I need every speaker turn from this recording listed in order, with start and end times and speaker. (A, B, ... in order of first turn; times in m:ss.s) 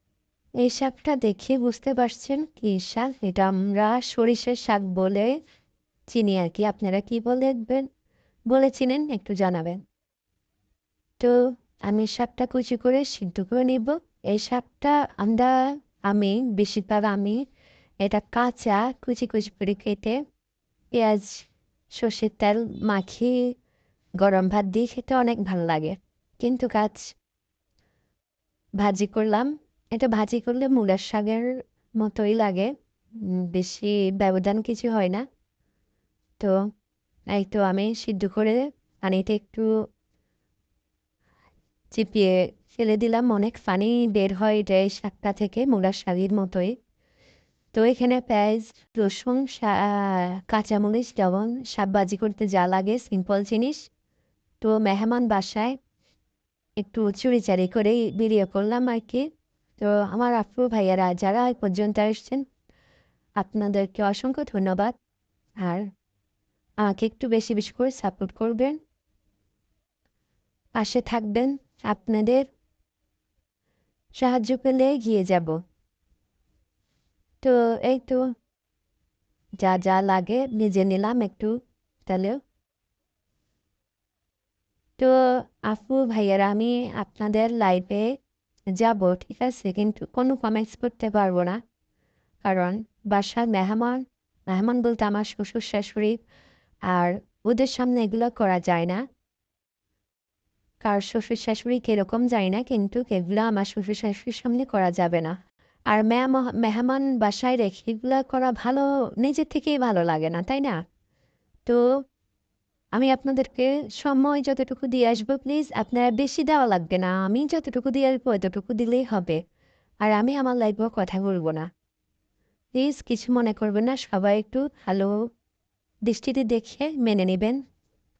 0:00.6-0:05.3 A
0:06.1-0:07.9 A
0:08.5-0:09.8 A
0:11.9-0:15.5 A
0:16.1-0:17.4 A
0:18.0-0:20.2 A
0:20.9-0:21.5 A
0:22.0-0:23.4 A
0:24.2-0:27.0 A
0:28.8-0:31.5 A
0:32.0-0:32.7 A
0:33.2-0:35.2 A
0:37.3-0:39.7 A
0:41.9-0:46.7 A
0:47.7-0:53.8 A
0:54.6-0:55.8 A
0:56.8-0:59.3 A
0:59.8-1:02.4 A
1:03.4-1:04.9 A
1:06.8-1:08.8 A
1:10.8-1:12.5 A
1:14.2-1:15.6 A
1:17.4-1:18.2 A
1:19.6-1:22.4 A
1:25.6-1:28.1 A
1:28.8-1:31.6 A
1:32.4-1:36.2 A
1:36.9-1:39.0 A
1:40.8-1:45.4 A
1:45.9-1:50.8 A
1:53.0-1:59.4 A
2:00.0-2:01.7 A
2:02.8-2:05.1 A
2:06.1-2:07.6 A